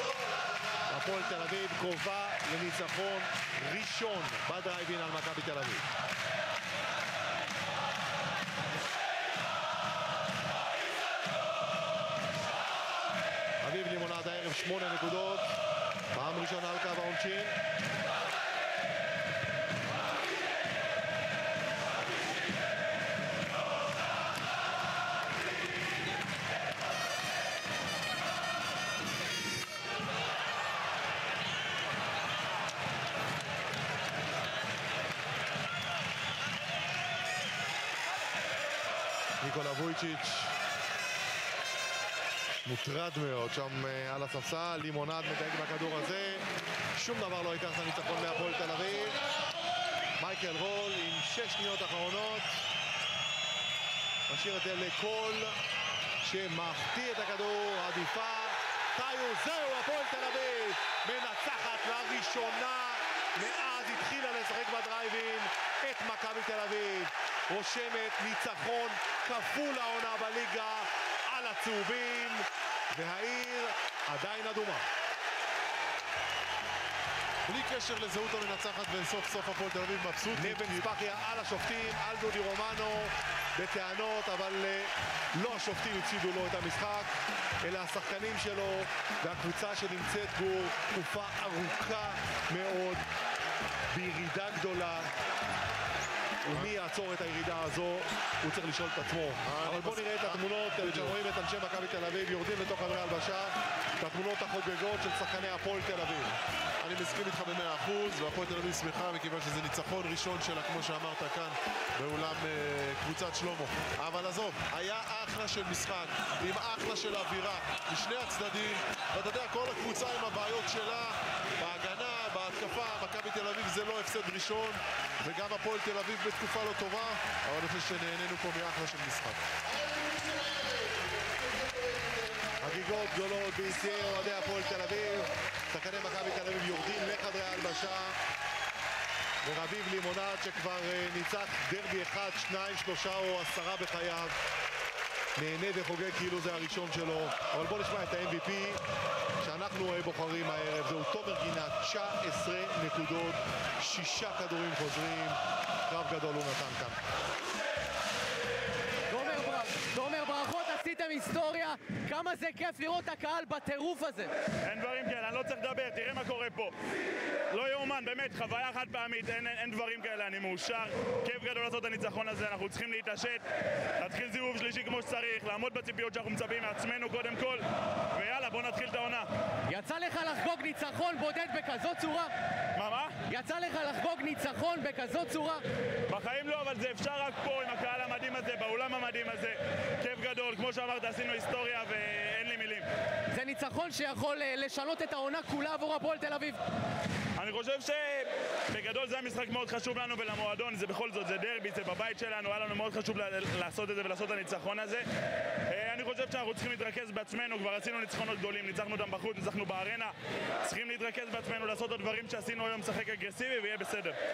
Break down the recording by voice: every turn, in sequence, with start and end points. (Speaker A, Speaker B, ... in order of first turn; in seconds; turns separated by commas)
Speaker A: 0.9-5.8, Speaker A: 13.6-15.4, Speaker A: 16.1-17.5, Speaker A: 39.4-40.5, Speaker A: 42.6-49.2, Speaker A: 50.2-52.6, Speaker A: 54.3-55.5, Speaker A: 56.2-74.8, Speaker B: 77.5-81.0, Speaker A: 80.3-93.0, Speaker A: 93.9-95.1, Speaker A: 96.5-106.4, Speaker B: 99.4-101.1, Speaker B: 106.8-129.4, Speaker A: 132.6-138.2, Speaker A: 139.4-144.3, Speaker A: 145.3-148.8, Speaker A: 149.4-157.0, Speaker C: 159.1-164.3, Speaker D: 164.6-166.7, Speaker D: 167.5-173.4, Speaker D: 174.0-179.3, Speaker C: 179.7-182.3, Speaker D: 182.8-183.2, Speaker C: 183.3-185.6, Speaker D: 186.1-192.8, Speaker C: 193.3-196.6, Speaker D: 197.4-205.1, Speaker D: 205.7-210.1, Speaker D: 210.6-214.2